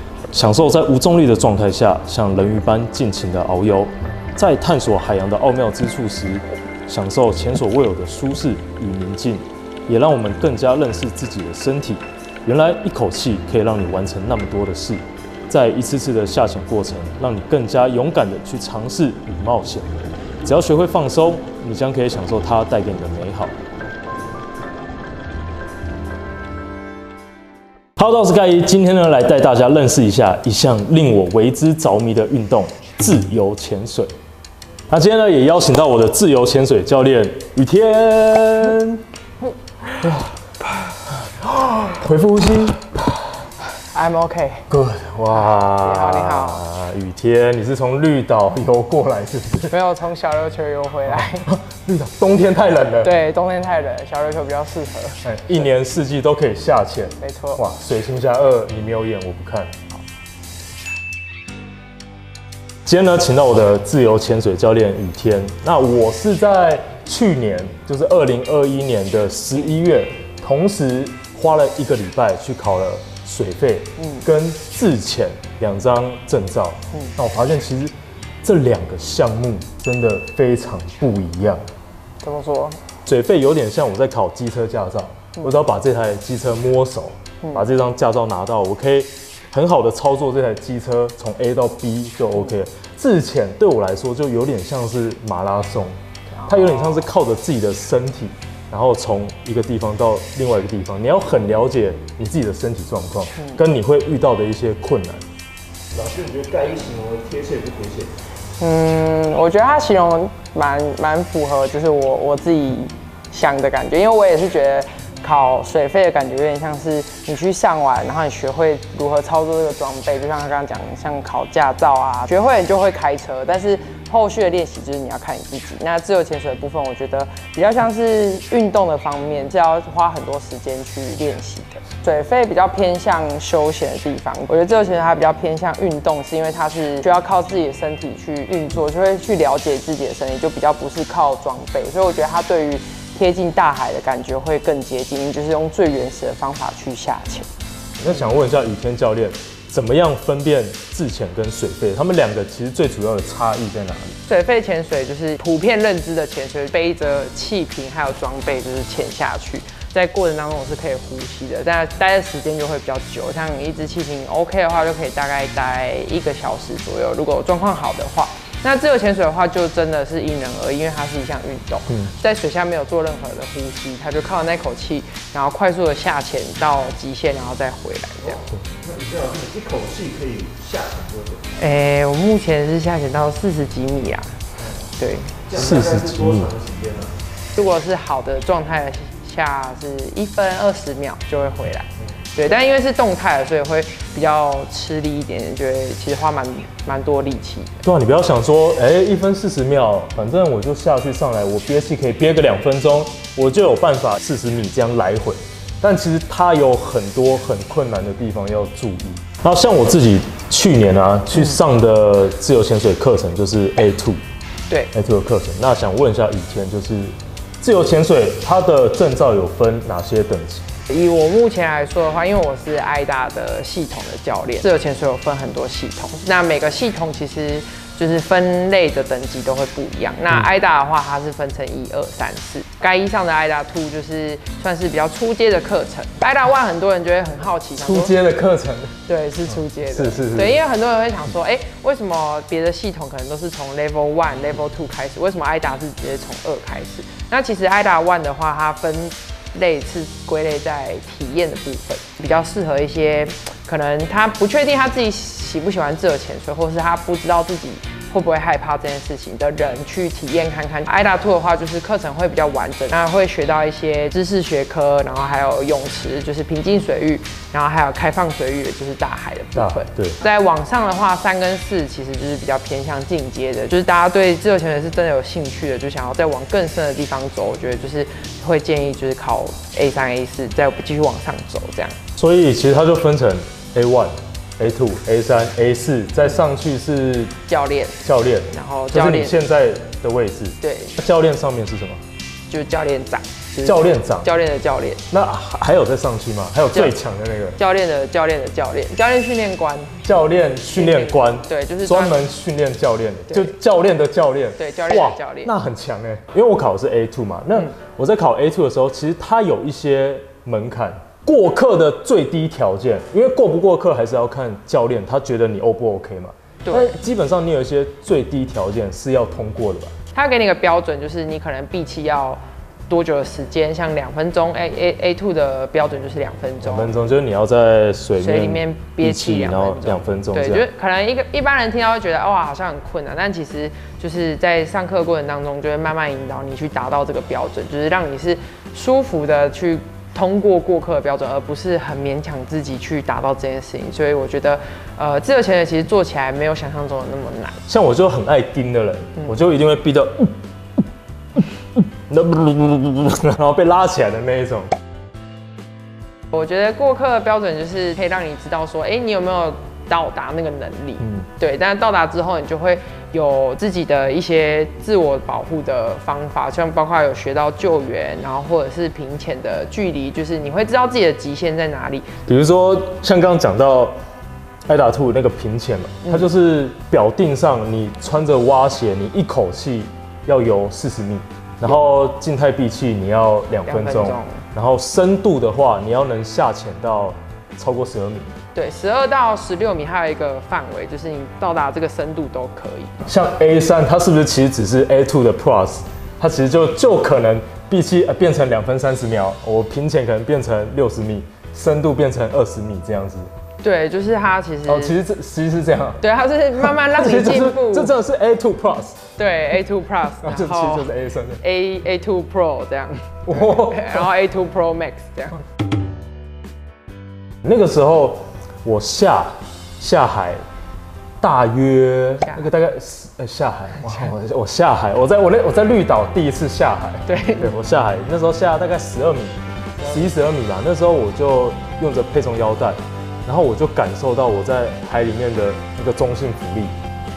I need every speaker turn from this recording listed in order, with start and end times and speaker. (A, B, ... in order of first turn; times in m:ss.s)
0:00.3-0:23.6 A
0:28.0-0:34.1 A
0:34.9-0:39.0 A
0:40.0-0:40.4 A
0:41.1-0:43.0 A
0:43.9-0:44.7 B
0:44.7-0:49.7 A
0:45.8-0:46.6 B
0:49.7-0:51.5 B
0:51.1-0:53.1 A
0:53.0-0:55.6 B
0:55.2-0:59.8 A
0:57.2-0:57.6 B
1:02.9-1:17.9 A
1:14.0-1:14.3 B
1:18.4-1:21.6 A
1:22.2-1:22.8 B
1:23.1-1:45.3 A
1:36.4-1:37.0 B
1:45.9-1:48.1 C
1:48.6-2:27.5 B
2:28.0-2:34.2 A
2:34.3-2:58.4 B
2:58.2-3:01.5 C
3:01.6-3:04.4 B
3:05.0-3:05.4 B
3:05.4-3:07.2 C
3:05.5-3:06.5 A
3:07.6-3:17.8 B
3:17.8-3:34.2 A
3:34.9-3:40.7 A
3:40.9-3:58.1 B
3:57.8-3:59.0 A
3:59.1-4:42.0 B
3:59.5-4:00.6 A
4:29.6-4:30.2 A
4:42.2-4:47.3 A
4:47.5-4:49.4 B
4:48.0-4:52.0 A
4:50.6-4:51.0 B
4:52.5-4:55.1 B
4:53.6-4:54.3 A
4:55.1-4:57.6 A
4:57.6-5:00.0 B
5:00.0-5:19.9 A
5:00.8-5:02.2 B
5:04.6-5:05.5 B
5:16.6-5:16.9 B
5:20.1-5:27.0 B
5:26.6-5:30.7 A
5:28.2-5:47.6 B
5:47.7-5:50.4 A
5:52.1-5:54.7 A
5:56.3-6:12.1 B
6:01.0-6:01.3 A
6:12.3-6:14.0 A
6:14.7-6:28.4 A
6:23.7-6:24.4 B
6:28.6-6:33.0 B
6:33.0-6:43.3 A
6:43.6-6:45.0 B
6:44.7-6:46.0 A
6:46.0-6:47.9 B
6:46.6-6:49.0 A
6:49.2-6:50.9 B
6:50.2-6:51.4 A
6:51.4-6:55.4 B
6:53.3-6:54.1 A
6:57.4-7:00.4 A
7:01.2-7:16.8 A
7:07.1-7:07.5 B